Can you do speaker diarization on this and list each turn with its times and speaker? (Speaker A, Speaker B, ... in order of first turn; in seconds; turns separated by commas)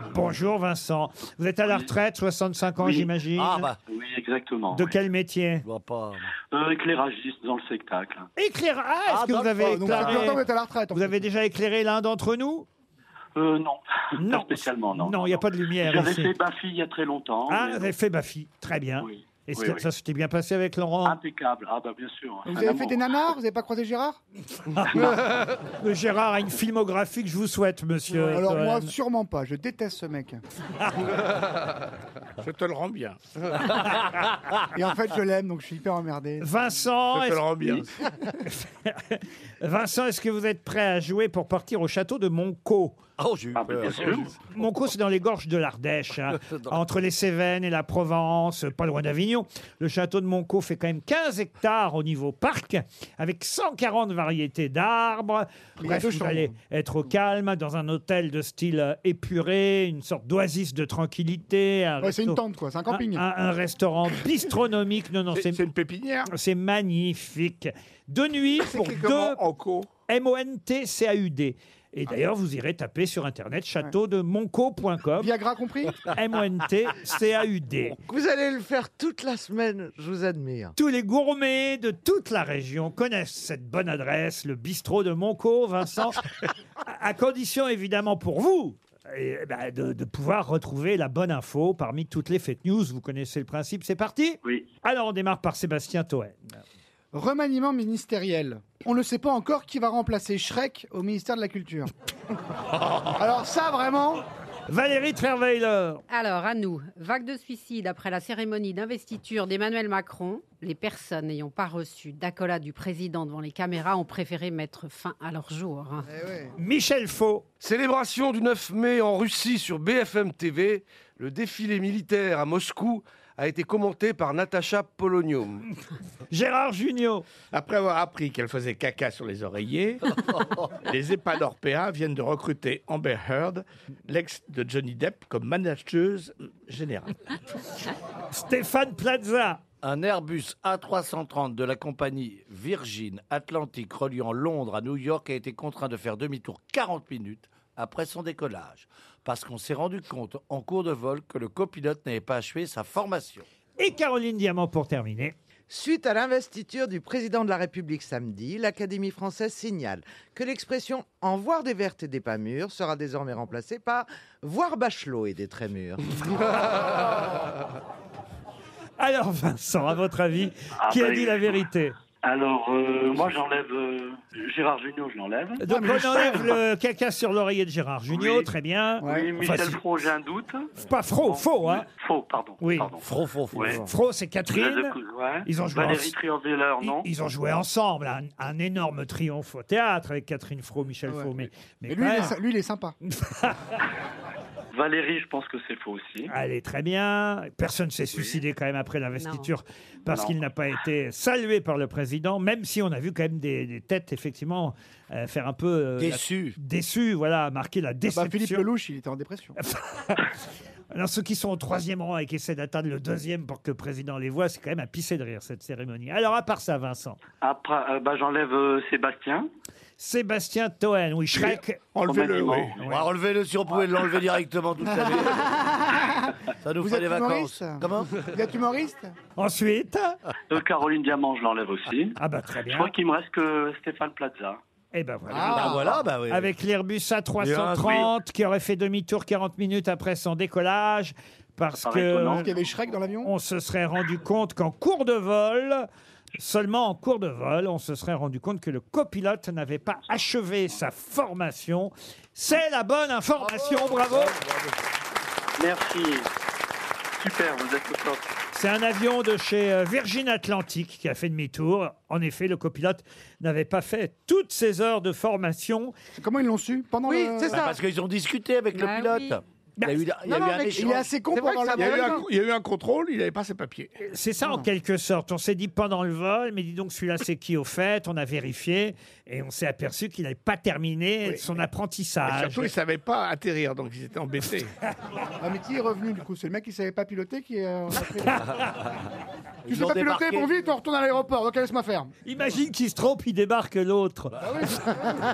Speaker A: 0.1-3.7, Speaker B: 2.8-3.1, Speaker C: 3.4-3.8, Speaker B: 3.9-4.9, Speaker A: 4.7-5.6, Speaker C: 5.6-6.3, Speaker B: 6.5-8.3, Speaker A: 8.4-12.7, Speaker C: 9.1-10.4, Speaker D: 9.6-11.1, Speaker B: 13.3-17.9, Speaker A: 14.2-16.3, Speaker A: 17.5-21.2, Speaker B: 19.0-19.8, Speaker B: 21.0-23.2, Speaker D: 22.4-24.2, Speaker A: 24.7-28.9, Speaker D: 28.1-30.4, Speaker E: 32.4-33.7, Speaker C: 33.7-34.5, Speaker D: 34.7-36.5, Speaker A: 36.4-43.0, Speaker E: 37.1-37.9, Speaker C: 43.2-44.4, Speaker B: 43.5-44.3, Speaker A: 44.5-65.6, Speaker C: 46.4-46.7, Speaker D: 55.8-56.5, Speaker D: 62.0-63.2, Speaker E: 65.3-66.3, Speaker A: 66.3-69.4, Speaker E: 68.5-69.9, Speaker A: 70.1-75.3, Speaker D: 75.2-76.0, Speaker A: 76.1-78.0, Speaker F: 77.9-80.7, Speaker A: 80.8-86.2, Speaker A: 86.8-96.4, Speaker D: 97.1-101.9, Speaker D: 103.1-104.2, Speaker A: 104.7-106.0, Speaker G: 106.1-116.2, Speaker D: 116.1-116.5, Speaker A: 116.6-117.5, Speaker H: 117.6-120.6, Speaker H: 121.9-122.8, Speaker H: 123.9-125.5, Speaker A: 126.3-127.2, Speaker E: 127.5-137.3, Speaker A: 138.3-139.6, Speaker C: 139.8-153.4, Speaker A: 153.8-155.3, Speaker F: 155.7-166.4, Speaker A: 169.0-171.9, Speaker B: 170.8-171.6, Speaker B: 172.2-175.6, Speaker A: 175.6-179.8, Speaker D: 175.7-176.6, Speaker B: 178.1-178.5, Speaker D: 179.0-179.3, Speaker B: 179.0-180.7, Speaker A: 180.8-181.8, Speaker B: 181.2-183.8, Speaker A: 182.6-182.9, Speaker C: 183.0-183.8, Speaker A: 183.7-184.9, Speaker B: 184.5-187.1, Speaker A: 185.4-186.1, Speaker A: 186.8-192.3, Speaker D: 191.1-191.3, Speaker D: 191.9-192.9, Speaker A: 193.1-193.7, Speaker B: 194.7-196.3, Speaker A: 196.3-208.7, Speaker B: 198.1-198.4, Speaker G: 199.2-199.5, Speaker B: 200.1-200.4, Speaker C: 206.0-206.6, Speaker D: 208.1-209.6, Speaker A: 209.6-210.2, Speaker A: 210.9-217.2, Speaker B: 217.4-219.5, Speaker A: 220.0-221.8, Speaker E: 221.9-222.7, Speaker B: 222.0-222.8, Speaker C: 222.8-225.9, Speaker D: 225.2-229.1, Speaker C: 226.6-228.3, Speaker A: 229.4-230.2, Speaker B: 230.5-234.6, Speaker A: 232.2-232.9, Speaker A: 234.9-242.5, Speaker D: 235.3-236.0, Speaker C: 235.5-236.5, Speaker C: 237.4-238.1, Speaker B: 241.8-242.9, Speaker D: 242.4-243.3, Speaker A: 243.2-254.3, Speaker B: 255.6-256.3, Speaker B: 257.2-258.3, Speaker A: 258.5-265.9, Speaker D: 266.2-267.7, Speaker F: 267.1-267.7, Speaker C: 267.5-271.1, Speaker G: 268.7-269.3, Speaker D: 270.2-272.3, Speaker F: 271.3-271.9, Speaker E: 271.3-273.9, Speaker A: 274.0-282.7, Speaker E: 282.2-284.7, Speaker D: 285.4-288.4, Speaker C: 289.6-290.5, Speaker D: 289.7-292.1, Speaker A: 292.2-294.9, Speaker D: 294.4-295.1